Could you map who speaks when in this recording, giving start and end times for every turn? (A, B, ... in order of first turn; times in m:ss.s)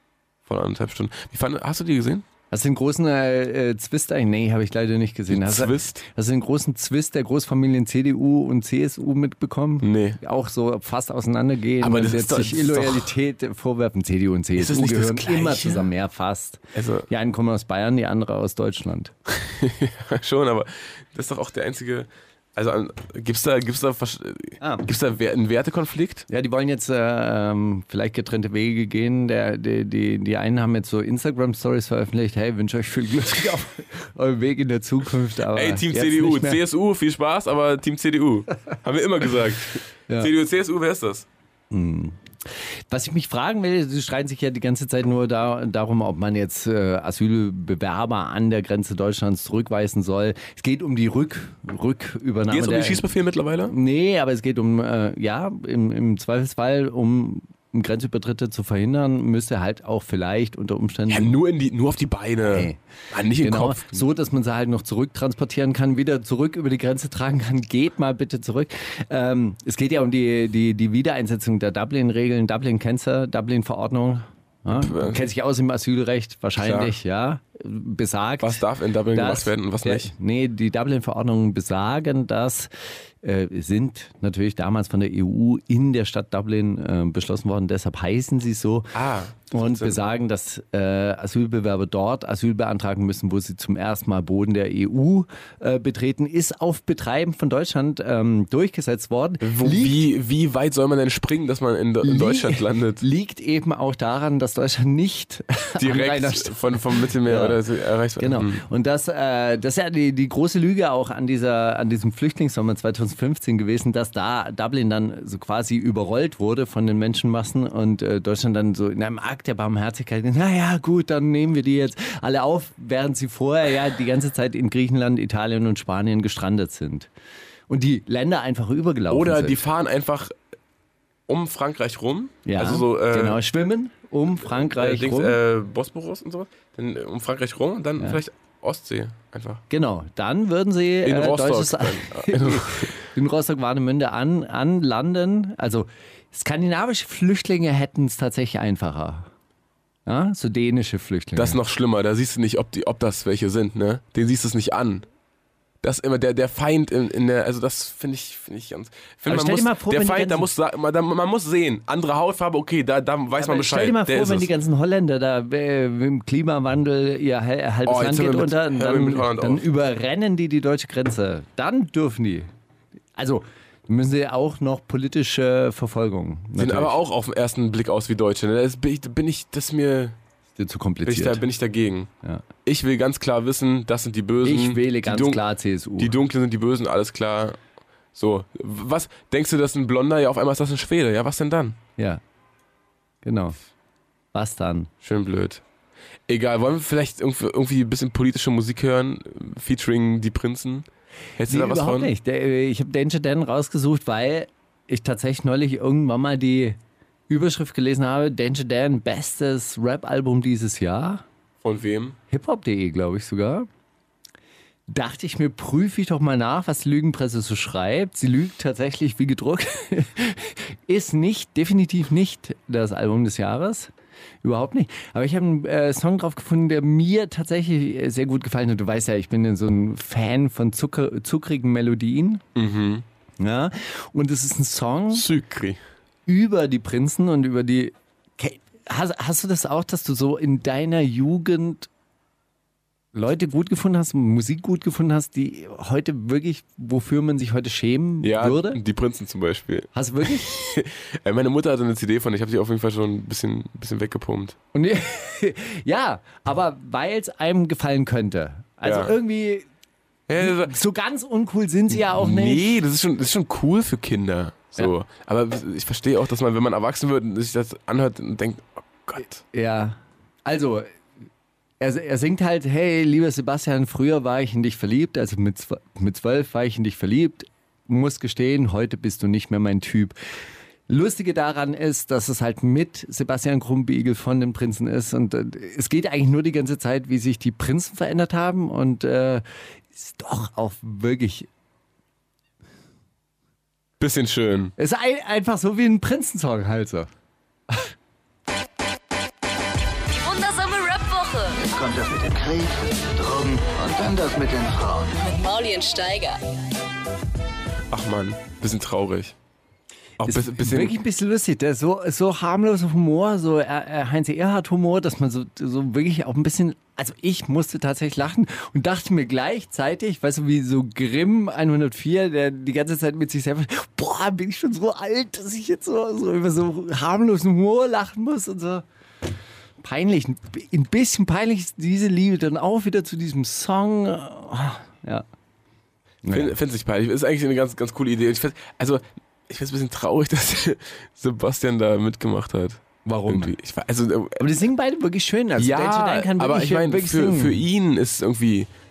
0:00.4-0:02.2 A
0:02.5-0:19.1 B
0:05.3-0:06.0 A
0:09.8-0:10.2 A
0:11.8-0:13.1 A
0:14.5-0:15.9 A
0:16.7-0:17.1 A
0:19.3-0:26.3 A
0:24.6-0:24.8 B
0:26.3-0:36.6 B
0:35.5-0:41.2 A
0:41.7-0:42.2 B
0:42.9-0:53.0 B
0:52.5-0:53.7 A
0:53.7-1:01.4 B
1:01.1-1:04.0 A
1:02.5-1:02.8 B
1:03.4-1:22.7 B
1:14.7-1:15.2 A
1:16.6-1:16.9 A
1:18.4-1:20.1 A
1:23.2-1:28.9 B
1:28.9-1:30.0 A
1:29.5-1:40.0 B
1:39.4-1:43.0 A
1:42.0-1:47.6 B
1:45.8-1:48.6 A
1:48.2-2:07.1 B
2:07.7-2:09.6 B
2:09.1-2:10.3 A
2:11.3-2:13.4 A
2:12.4-2:15.4 B
2:14.5-2:19.6 A
2:19.7-2:29.3 B
2:21.0-2:22.9 A
2:30.0-2:31.6 B
2:31.4-2:35.0 A
2:35.8-2:44.5 A
2:39.2-2:40.5 B
2:43.3-2:52.5 B
2:47.8-2:49.6 A
2:53.2-2:57.0 B
2:56.6-3:00.2 A
3:00.6-3:01.4 B
3:01.0-3:02.1 A
3:02.6-3:05.4 A
3:04.4-3:06.1 B
3:06.0-3:07.6 A
3:08.1-3:11.8 A
3:13.2-3:13.6 B
3:14.3-3:14.9 B
3:15.0-3:15.6 A
3:16.3-3:20.9 A
3:21.4-3:22.1 A
3:21.5-3:26.8 B
3:27.3-3:31.2 B
3:31.6-3:32.2 A
3:32.3-3:33.7 B
3:34.9-3:43.9 B
3:44.4-3:52.4 B
3:52.5-3:53.0 A
3:53.4-3:55.3 B
3:55.1-3:55.8 A
3:56.3-4:01.9 B
4:03.1-4:08.8 B
4:08.2-4:14.6 A
4:09.9-4:10.8 B
4:14.7-4:19.6 B
4:18.8-4:19.1 A
4:20.3-4:20.7 A
4:20.4-4:22.8 B
4:22.1-4:29.4 A
4:29.5-4:30.9 B
4:31.8-4:40.2 B
4:40.9-4:51.5 B
4:54.0-4:54.7 A
4:54.8-4:57.1 B
5:00.1-5:01.6 C
5:01.6-5:05.2 D
5:05.2-5:06.4 C
5:07.9-5:09.4 A
5:10.2-5:11.0 A
5:10.2-5:28.8 B
5:29.8-5:35.2 B
5:36.2-5:36.5 B
5:36.3-5:44.4 A
5:43.0-5:43.5 B
5:44.4-5:47.6 B
5:45.6-5:48.7 A